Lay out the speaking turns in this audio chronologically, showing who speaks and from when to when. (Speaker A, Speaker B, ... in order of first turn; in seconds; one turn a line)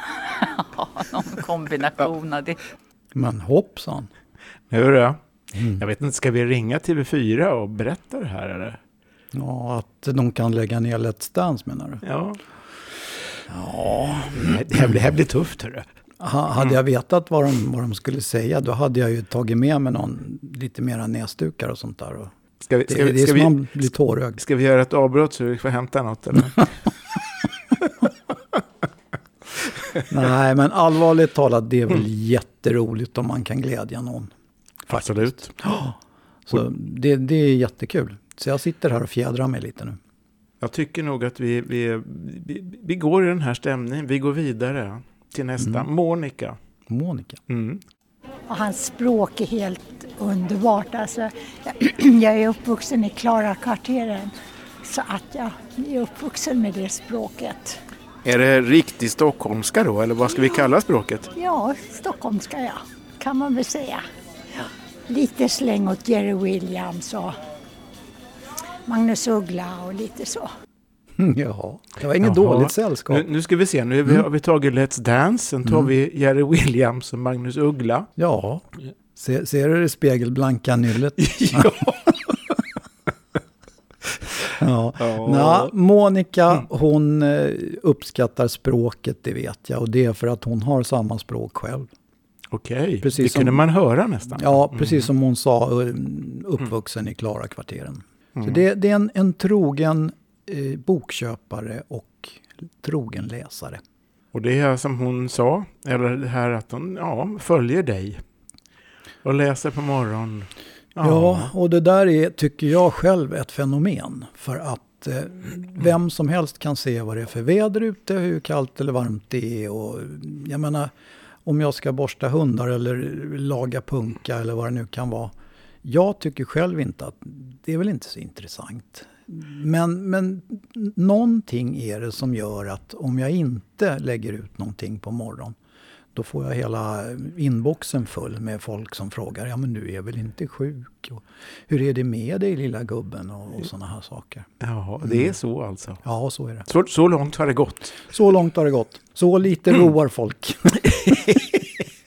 Speaker A: 0.3-2.6
Speaker B: 3.1-4.1
Speaker C: 4.7-5.2
Speaker B: 5.6-5.8
Speaker C: 5.7-8.8
Speaker B: 9.3-12.0
Speaker C: 12.0-12.4
Speaker B: 13.5-14.6
Speaker C: 14.3-15.8
Speaker B: 16.2-22.3
Speaker C: 22.6-23.7
Speaker B: 22.9-24.4
Speaker C: 24.4-26.7
Speaker B: 30.1-34.3
Speaker C: 34.9-35.5
Speaker B: 34.9-40.0
Speaker C: 40.6-46.6
Speaker B: 45.6-45.9
Speaker B: 46.9-47.4
Speaker C: 47.5-47.8
Speaker D: 48.5-54.3
Speaker D: 54.8-57.8
Speaker C: 58.2-61.3
Speaker D: 61.4-64.0
Speaker D: 65.1-67.3
Speaker D: 68.9-70.5
Speaker B: 71.2-73.3
Speaker C: 72.2-78.1
Speaker B: 75.7-75.9
Speaker B: 78.2-81.9
Speaker C: 81.2-82.2
Speaker B: 84.5-91.9
Speaker C: 85.0-85.7
Speaker C: 92.5-95.1
Speaker B: 93.0-93.6
Speaker B: 94.4-103.8
Speaker C: 98.4-98.6
Speaker C: 104.3-108.2
Speaker C: 109.2-111.5
Speaker B: 111.0-120.9
Speaker B: 121.5-125.3
Speaker B: 125.8-135.6
Speaker B: 136.2-144.5
Speaker C: 144.6-146.0
Speaker B: 145.0-145.3
Speaker B: 146.0-146.7
Speaker C: 146.7-148.0
Speaker B: 148.1-151.4
Speaker C: 150.9-151.4